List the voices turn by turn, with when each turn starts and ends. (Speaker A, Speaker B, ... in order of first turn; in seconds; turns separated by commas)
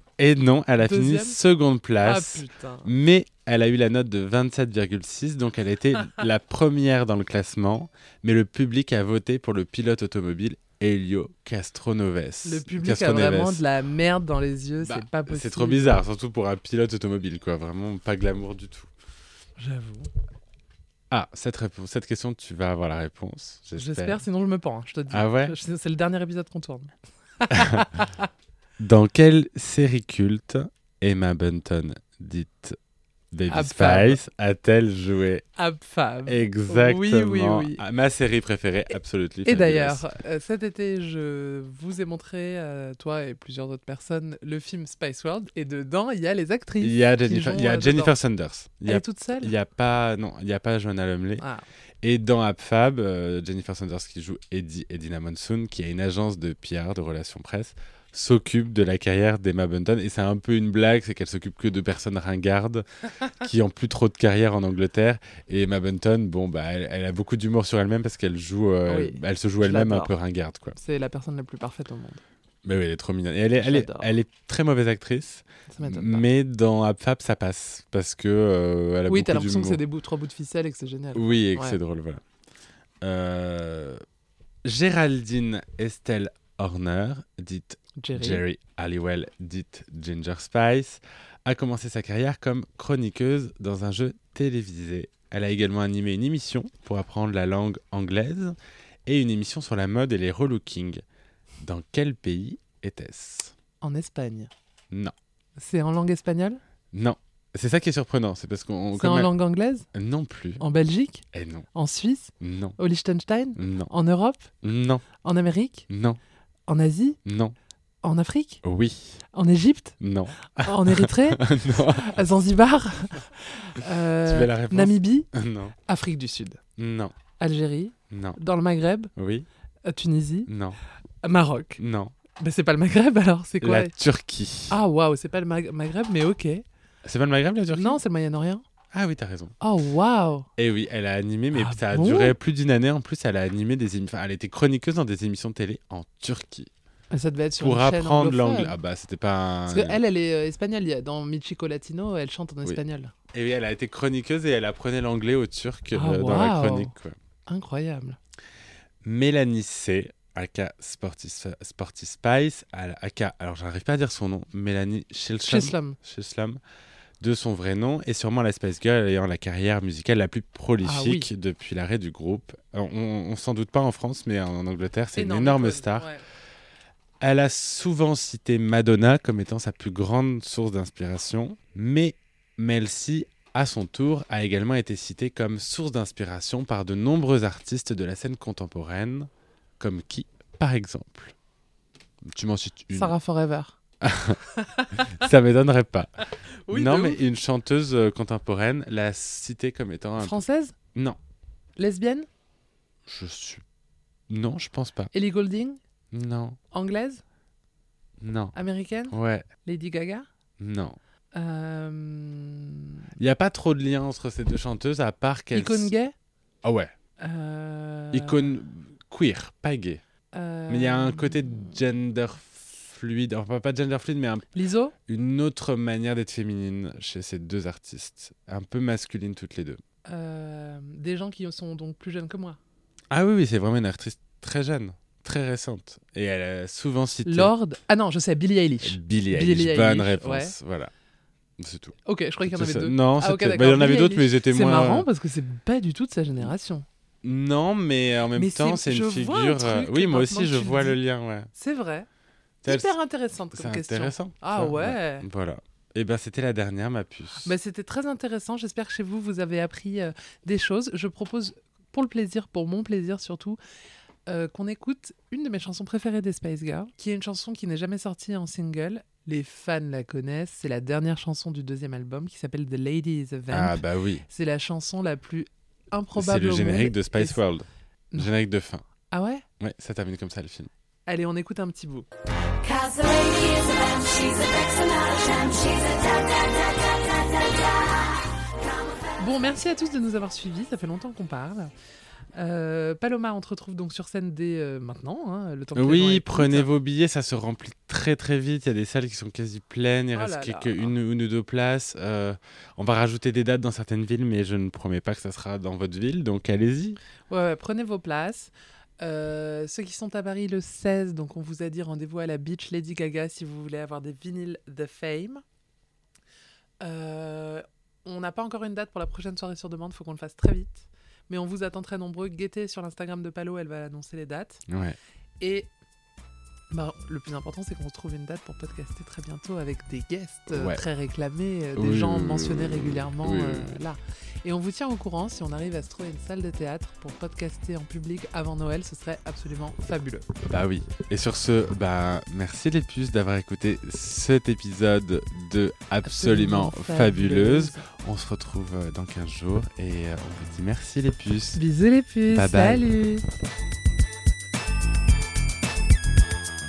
Speaker A: 0.2-13.6, Speaker B: 0.8-1.4, Speaker B: 2.0-2.9, Speaker B: 12.4-16.0, Speaker A: 14.8-18.9, Speaker B: 19.6-20.1, Speaker A: 21.1-24.2, Speaker B: 23.8-26.9, Speaker A: 25.1-25.6, Speaker B: 27.4-28.3, Speaker A: 27.5-27.9, Speaker A: 28.8-32.8, Speaker A: 33.3-35.5, Speaker B: 33.5-34.2, Speaker B: 35.6-37.8, Speaker A: 36.3-40.0, Speaker B: 39.5-48.2, Speaker A: 46.8-51.4, Speaker B: 48.9-49.5, Speaker A: 52.0-70.8, Speaker B: 68.9-70.1, Speaker B: 70.8-72.2, Speaker A: 72.7-79.8, Speaker B: 73.6-74.1, Speaker B: 75.7-76.3, Speaker B: 79.1-81.8, Speaker A: 81.1-82.2, Speaker A: 83.0-84.0, Speaker A: 84.6-101.0, Speaker B: 88.0-88.4, Speaker A: 101.6-103.5, Speaker B: 103.8-104.5, Speaker B: 105.6-106.6, Speaker A: 106.9-109.3, Speaker B: 109.0-109.9, Speaker A: 109.9-110.6, Speaker B: 110.6-114.5, Speaker A: 111.3-111.7, Speaker A: 112.4-112.8, Speaker A: 113.6-113.9, Speaker A: 114.6-115.1, Speaker B: 115.2-115.9, Speaker A: 115.9-116.2, Speaker B: 116.7-117.2, Speaker A: 117.2-117.5, Speaker B: 118.0-118.6, Speaker A: 118.6-119.2, Speaker B: 119.3-120.0, Speaker A: 120.0-122.2, Speaker B: 120.5-125.3, Speaker A: 124.2-125.8, Speaker B: 125.9-126.6, Speaker A: 126.8-127.2, Speaker B: 127.4-129.1, Speaker A: 128.1-128.4, Speaker A: 129.2-129.5, Speaker B: 129.8-130.5, Speaker A: 130.5-130.8, Speaker B: 131.2-131.8, Speaker A: 131.8-132.2, Speaker B: 132.4-133.9, Speaker A: 133.6-134.8, Speaker B: 134.7-136.7, Speaker A: 137.0-138.0, Speaker B: 137.7-138.7, Speaker A: 138.9-139.6, Speaker B: 139.6-140.5, Speaker A: 140.6-146.7, Speaker B: 141.5-142.3, Speaker B: 147.1-148.8, Speaker A: 147.6-150.0, Speaker B: 149.7-153.1, Speaker A: 153.3-157.2, Speaker B: 155.9-156.9, Speaker B: 157.5-158.2, Speaker A: 159.0-166.6, Speaker B: 165.4-166.0, Speaker A: 167.2-176.1, Speaker B: 170.8-171.3, Speaker B: 175.2-176.2, Speaker A: 177.2-191.3, Speaker A: 192.2-193.2, Speaker B: 192.9-193.8, Speaker A: 194.0-194.4, Speaker B: 194.4-195.1, Speaker A: 195.0-196.1, Speaker B: 196.7-197.2, Speaker A: 196.7-200.4, Speaker B: 200.2-200.8, Speaker B: 201.8-202.3, Speaker A: 203.1-203.6, Speaker A: 204.3-205.1, Speaker B: 205.1-205.8, Speaker A: 206.1-206.6, Speaker B: 206.7-207.2, Speaker A: 208.2-208.6, Speaker B: 208.5-210.3, Speaker A: 209.1-209.5, Speaker A: 210.6-211.0, Speaker B: 211.3-213.1, Speaker A: 213.2-215.9, Speaker B: 215.5-216.1, Speaker A: 216.6-216.9, Speaker B: 217.2-218.5, Speaker A: 218.1-220.0, Speaker B: 220.3-221.8, Speaker A: 220.7-224.5, Speaker B: 224.5-224.9, Speaker A: 225.1-229.8, Speaker B: 230.1-232.6, Speaker A: 233.1-237.5, Speaker B: 237.2-240.6, Speaker A: 238.8-240.9, Speaker A: 241.6-245.1, Speaker B: 242.1-246.8, Speaker A: 247.2-251.5, Speaker B: 248.3-251.0, Speaker B: 251.5-252.1, Speaker A: 252.6-253.0, Speaker B: 252.7-255.3, Speaker A: 253.5-257.6, Speaker B: 257.4-263.6, Speaker B: 264.3-277.4, Speaker A: 273.5-274.2, Speaker A: 276.2-278.8, Speaker B: 279.1-279.4, Speaker A: 279.6-280.7, Speaker B: 281.1-282.1, Speaker C: 282.6-289.2, Speaker B: 289.2-291.7, Speaker B: 292.3-296.7, Speaker A: 295.8-307.0, Speaker B: 300.1-300.9, Speaker B: 307.3-315.4, Speaker B: 316.8-324.6, Speaker A: 324.7-325.0, Speaker B: 325.4-325.7, Speaker B: 326.7-340.3, Speaker A: 330.5-330.8, Speaker A: 331.8-333.8, Speaker A: 340.5-351.6, Speaker B: 346.0-347.9, Speaker B: 351.6-353.2, Speaker A: 352.3-352.9